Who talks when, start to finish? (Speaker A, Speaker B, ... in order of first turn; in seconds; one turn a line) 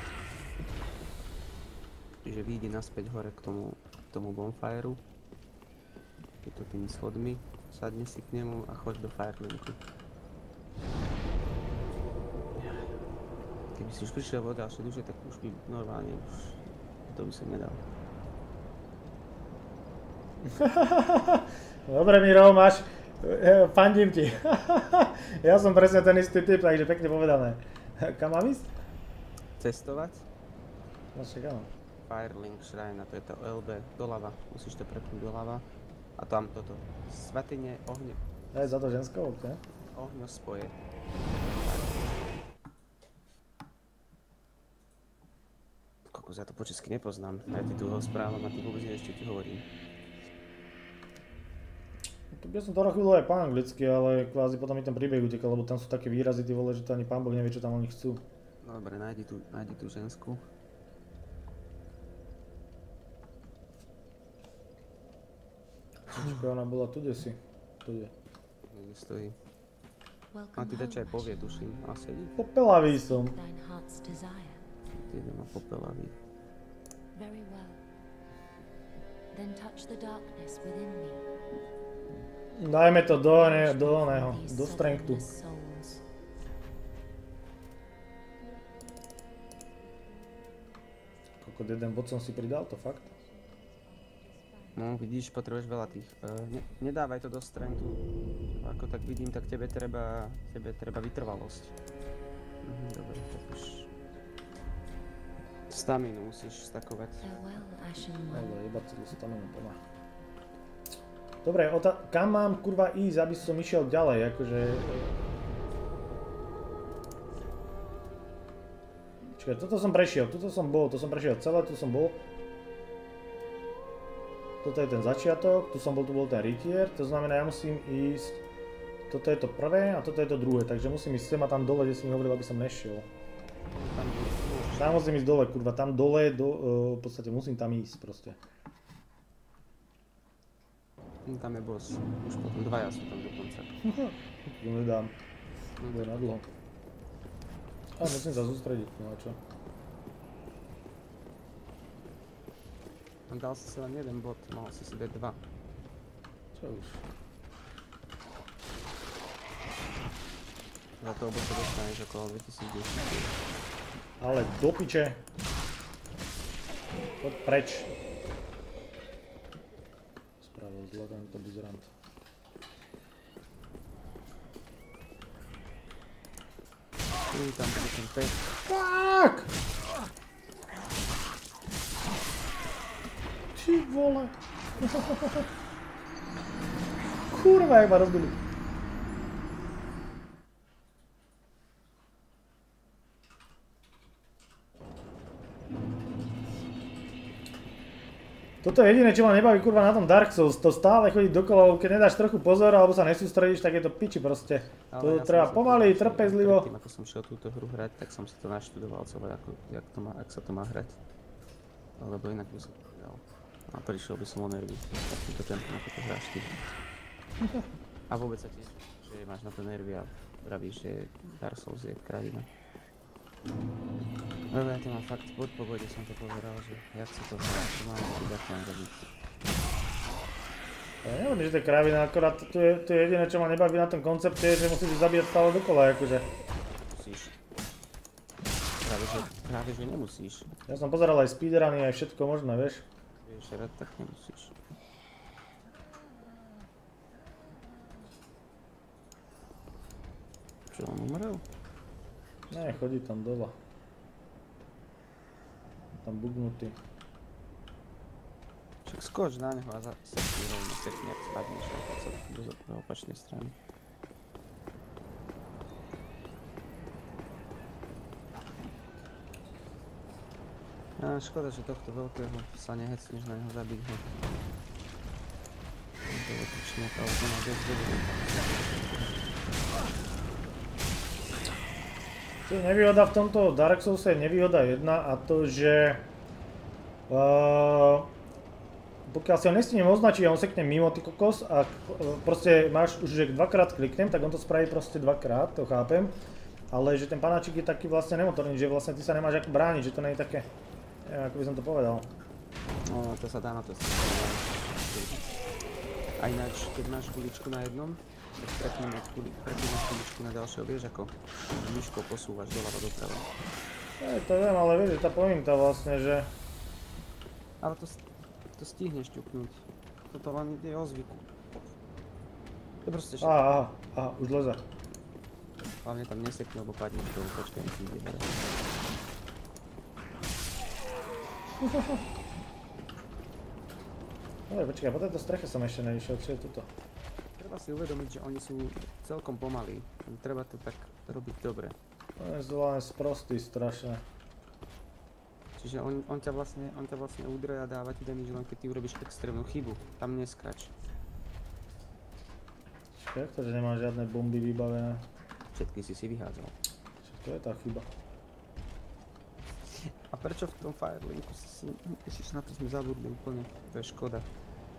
Speaker A: 2.2-5.0
Speaker A: 6.4-9.8
Speaker A: 12.6-12.8
Speaker A: 13.7-17.8
Speaker B: 20.4-28.7
Speaker A: 29.6-30.2
Speaker B: 31.1-31.7
Speaker A: 32.1-35.6
Speaker A: 36.2-38.2
Speaker B: 38.5-39.6
Speaker A: 39.9-40.8
Speaker A: 41.4-42.5
Speaker A: 46.1-49.7
Speaker B: 52.3-58.3
Speaker A: 58.6-60.4
Speaker B: 66.1-68.1
Speaker A: 68.7-69.4
Speaker C: 70.3-71.7
Speaker A: 70.5-72.4
Speaker B: 72.4-73.4
Speaker C: 72.8-74.6
Speaker A: 74.9-76.2
Speaker C: 77.1-77.8
Speaker C: 79.3-81.2
Speaker B: 82.6-85.2
Speaker C: 83.2-86.0
Speaker B: 91.4-93.1
Speaker C: 93.3-94.7
Speaker A: 94.7-101.7
Speaker A: 102.6-103.9
Speaker A: 105.7-107.2
Speaker C: 107.2-108.6
Speaker B: 108.3-109.8
Speaker B: 111.4-115.2
Speaker B: 119.3-122.2
Speaker B: 124.6-128.4
Speaker B: 129.1-133.1
Speaker A: 133.7-135.1
Speaker B: 134.8-138.4
Speaker A: 141.2-143.8
Speaker B: 143.8-145.1
Speaker A: 145.8-146.2
Speaker B: 145.9-146.5
Speaker B: 148.0-149.4
Speaker A: 153.3-155.4
Speaker B: 156.5-157.0
Speaker A: 161.0-163.4
Speaker B: 164.2-165.2
Speaker B: 167.2-167.9
Speaker B: 170.4-171.9
Speaker A: 177.3-178.5
Speaker B: 178.7-179.5
Speaker B: 183.5-185.5
Speaker B: 187.3-188.4
Speaker B: 198.6-206.7
Speaker A: 204.9-211.0
Speaker A: 212.0-216.6
Speaker A: 218.1-222.5
Speaker A: 224.5-229.1
Speaker B: 231.0-236.3
Speaker A: 236.9-237.3
Speaker A: 238.8-240.5
Speaker B: 240.7-242.8
Speaker A: 243.2-244.5
Speaker A: 250.7-251.4
Speaker B: 252.5-253.6
Speaker B: 256.0-256.8
Speaker A: 258.8-263.5
Speaker A: 271.0-274.1
Speaker A: 276.0-278.7
Speaker B: 282.5-286.1
Speaker B: 287.1-288.1
Speaker B: 289.1-296.1
Speaker B: 296.7-300.5
Speaker B: 301.0-302.1
Speaker A: 302.8-305.3
Speaker A: 306.2-313.3
Speaker B: 314.0-316.3
Speaker A: 317.6-318.0
Speaker A: 318.6-321.2
Speaker A: 322.8-323.6
Speaker B: 323.2-324.6
Speaker A: 325.8-328.5
Speaker B: 331.6-332.0
Speaker B: 334.5-336.7
Speaker A: 337.4-341.8
Speaker B: 342.2-344.0
Speaker A: 345.6-350.7
Speaker B: 352.9-355.0
Speaker A: 355.5-356.6
Speaker B: 357.0-357.9
Speaker A: 359.8-364.3